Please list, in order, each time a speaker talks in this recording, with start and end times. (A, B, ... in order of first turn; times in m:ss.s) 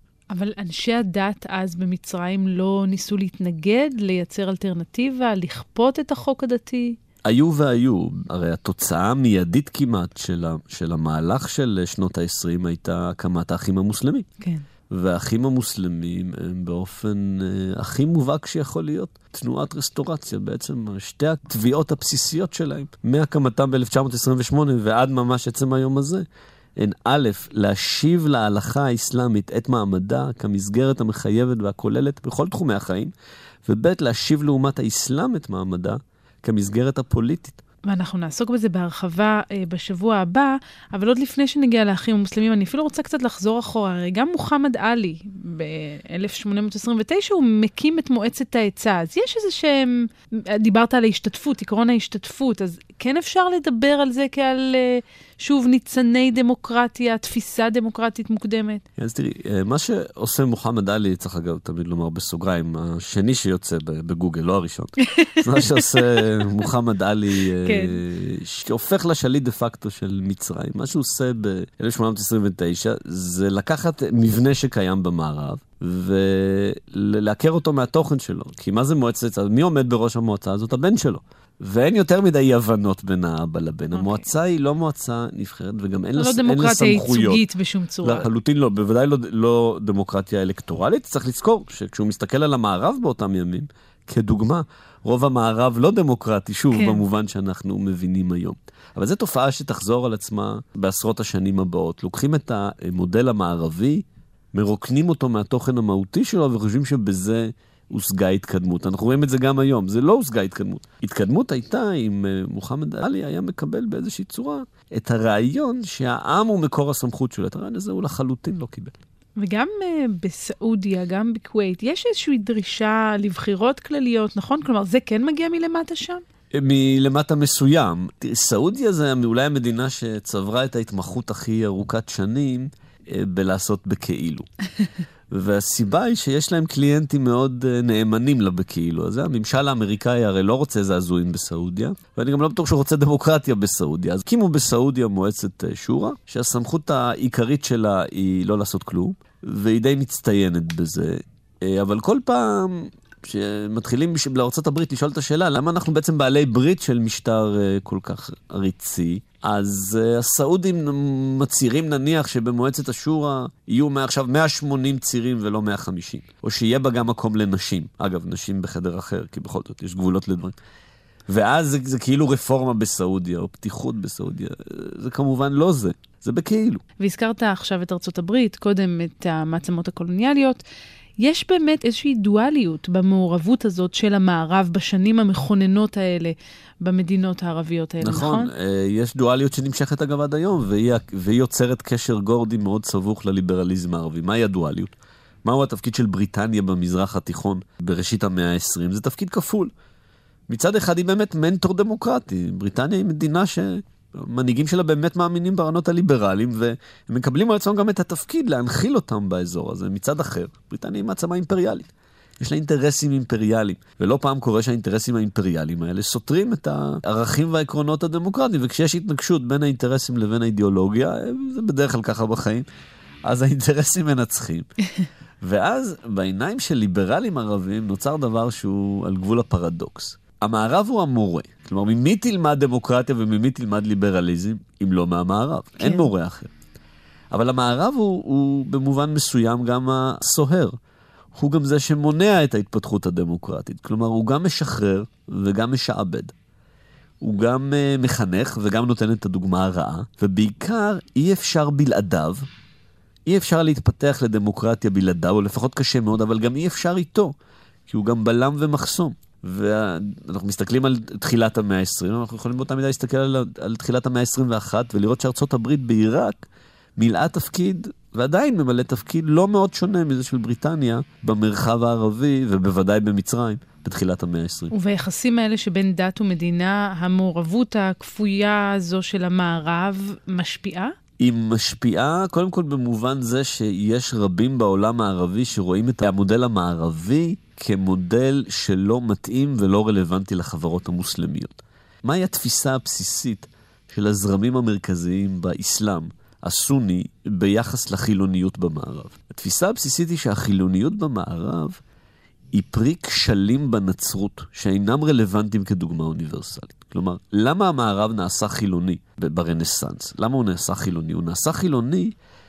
0:00.3-0:07.0 A
0:07.2-0:14.3 B
0:14.9-0:26.2 B
0:26.8-0:33.1 B
0:33.6-0:37.6 B
0:37.8-0:58.8 A
0:59.0-1:27.4 B
1:05.2-1:06.2 A
1:07.6-1:08.0 A
1:23.9-1:24.2 A
1:26.2-1:28.3 A
1:28.0-1:59.0 B
1:36.7-1:37.0 A
1:59.4-2:06.2 A
2:06.5-2:14.5 B
2:15.3-2:50.6 B
2:51.3-2:56.8 B
2:57.0-3:00.6 A
3:01.2-3:08.5 A
3:08.0-3:19.7 B
3:20.5-3:42.7 B
3:43.2-3:44.7 B
3:45.4-3:56.5 B
3:55.8-3:56.1 A
3:57.3-4:00.7 B
4:01.3-4:06.3 B
4:07.2-4:12.5 B
4:13.2-4:17.3 B
4:17.9-4:34.7 B
4:34.7-4:40.9 A
4:41.2-5:01.8 B
5:02.5-5:12.2 B